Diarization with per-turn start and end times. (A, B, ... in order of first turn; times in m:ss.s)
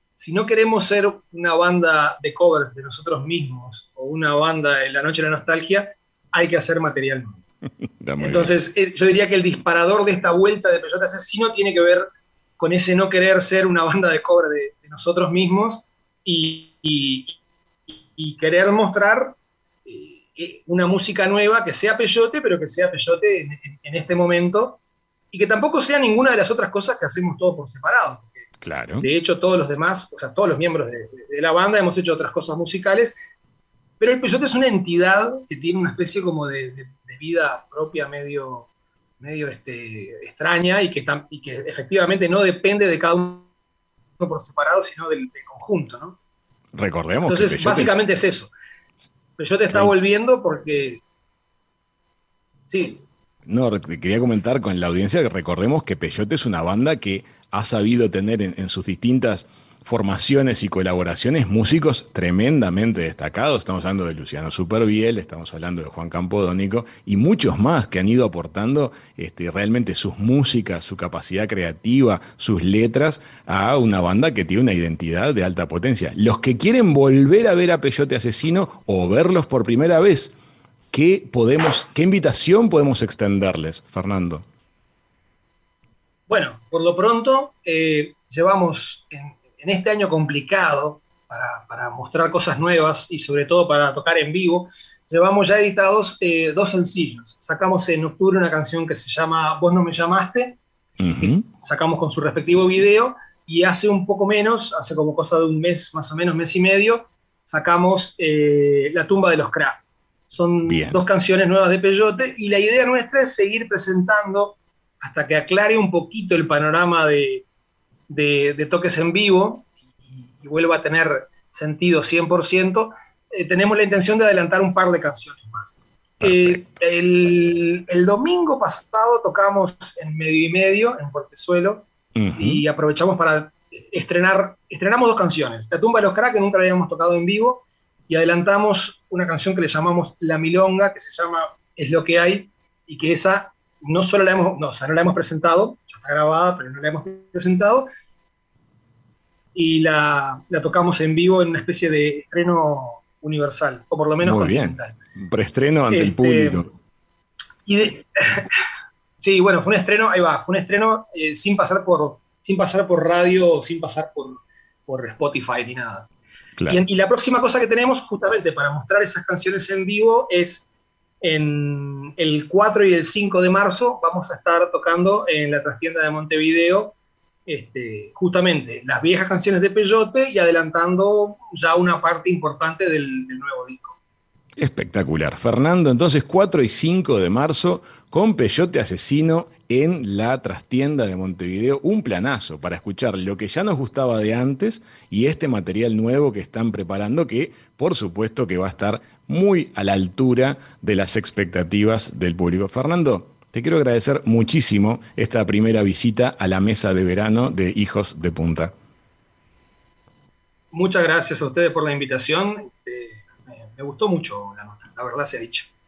0:00.2-0:07.4 A
0:08.0-0:08.5 B
0:08.2-0:12.0 A
0:12.6-0:17.4 A
0:18.1-0:24.8 A
0:25.3-0:28.4 A
0:28.6-0:29.1 B
0:29.0-0:33.1 A
0:34.0-0:38.7 A
0:39.2-0:43.5 A
0:44.2-0:46.2 A
0:46.7-0:48.0 B
0:47.2-0:48.5 A
0:49.4-0:51.0 A
0:52.7-0:53.0 A
0:53.4-1:20.4 B
1:20.9-1:24.4 B
1:26.3-1:40.6 A
1:41.0-1:41.4 B
1:41.2-1:57.4 A
1:50.7-1:51.0 B
1:58.1-2:27.9 A
2:06.2-2:06.6 B
2:12.2-2:12.6 B
2:29.6-2:35.0 A
2:34.2-2:36.7 B
2:35.9-2:36.6 A
2:37.6-2:38.5 A
2:39.2-2:46.1 A
2:46.7-2:50.7 A
2:51.2-2:57.0 A
2:57.5-3:04.0 A
3:04.6-3:28.7 B
3:30.7-3:35.7 A